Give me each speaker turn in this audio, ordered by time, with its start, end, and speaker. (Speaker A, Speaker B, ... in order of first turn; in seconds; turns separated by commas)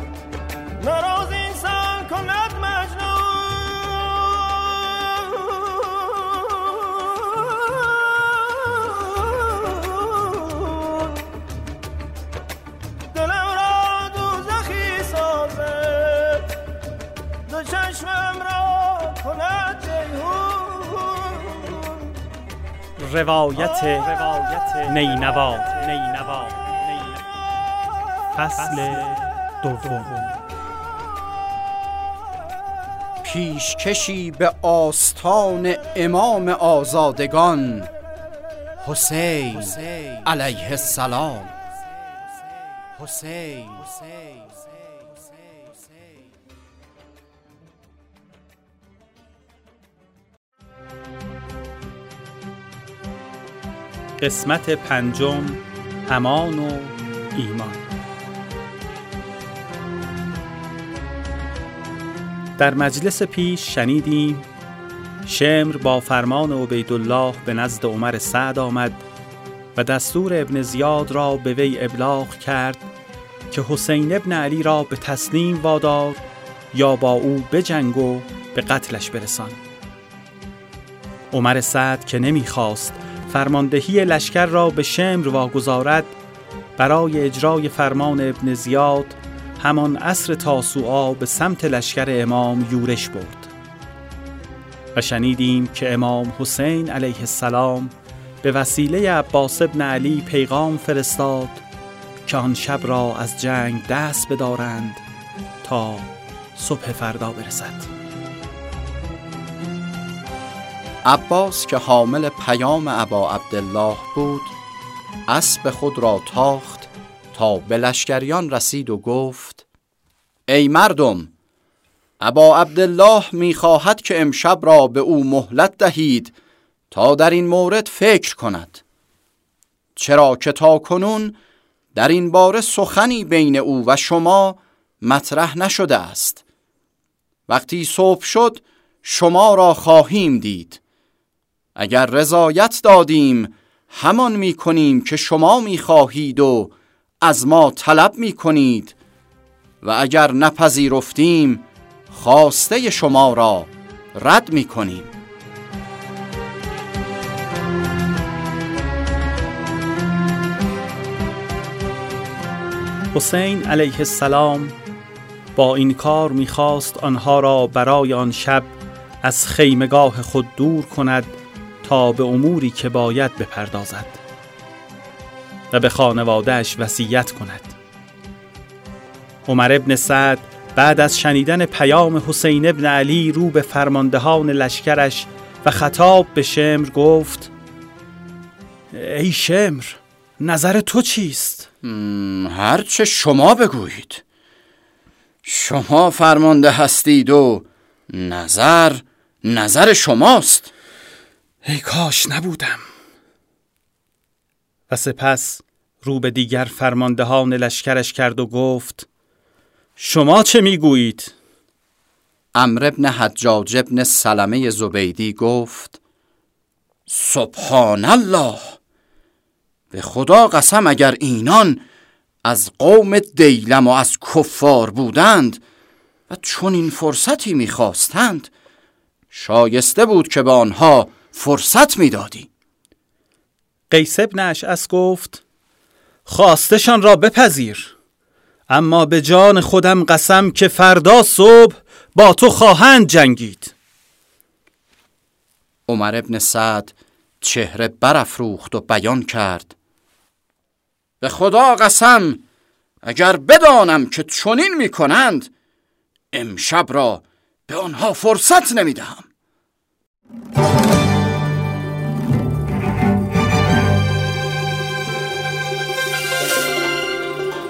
Speaker A: 0.8-11.3, Speaker B: 0.8-3.0, Speaker A: 13.1-16.6, Speaker B: 17.5-18.4, Speaker A: 17.9-22.1, Speaker C: 23.0-27.1, Speaker C: 28.3-30.3, Speaker D: 33.2-37.9, Speaker D: 38.8-41.5, Speaker D: 43.0-44.5, Speaker C: 54.2-57.8, Speaker C: 62.6-64.5, Speaker C: 65.2-69.0, Speaker C: 69.8-72.9, Speaker C: 73.5-79.6, Speaker C: 81.3-86.2, Speaker C: 86.8-93.5, Speaker C: 94.9-101.6, Speaker C: 102.3-105.0, Speaker C: 105.6-107.9, Speaker D: 111.0-114.5, Speaker D: 115.3-119.7, Speaker D: 120.5-121.3, Speaker D: 122.2-126.3, Speaker D: 126.9-128.8, Speaker D: 130.0-131.4, Speaker D: 131.9-136.4, Speaker D: 137.5-140.8, Speaker D: 141.8-149.0, Speaker D: 149.8-155.1, Speaker C: 163.1-164.8, Speaker C: 165.5-174.2, Speaker C: 175.7-177.8, Speaker C: 179.5-187.5, Speaker C: 188.9-191.7, Speaker D: 191.8-194.2, Speaker D: 195.4-200.7, Speaker C: 201.6-202.8, Speaker C: 204.9-209.1, Speaker C: 210.0-211.3, Speaker D: 212.6-216.0, Speaker D: 217.1-218.8, Speaker D: 219.9-221.8, Speaker D: 222.4-225.6, Speaker D: 226.3-228.5, Speaker D: 229.3-232.5, Speaker C: 233.9-235.4, Speaker C: 236.3-237.9, Speaker C: 238.7-243.7, Speaker D: 245.9-249.8, Speaker D: 251.2-252.4, Speaker D: 253.0-255.5, Speaker D: 256.3-259.3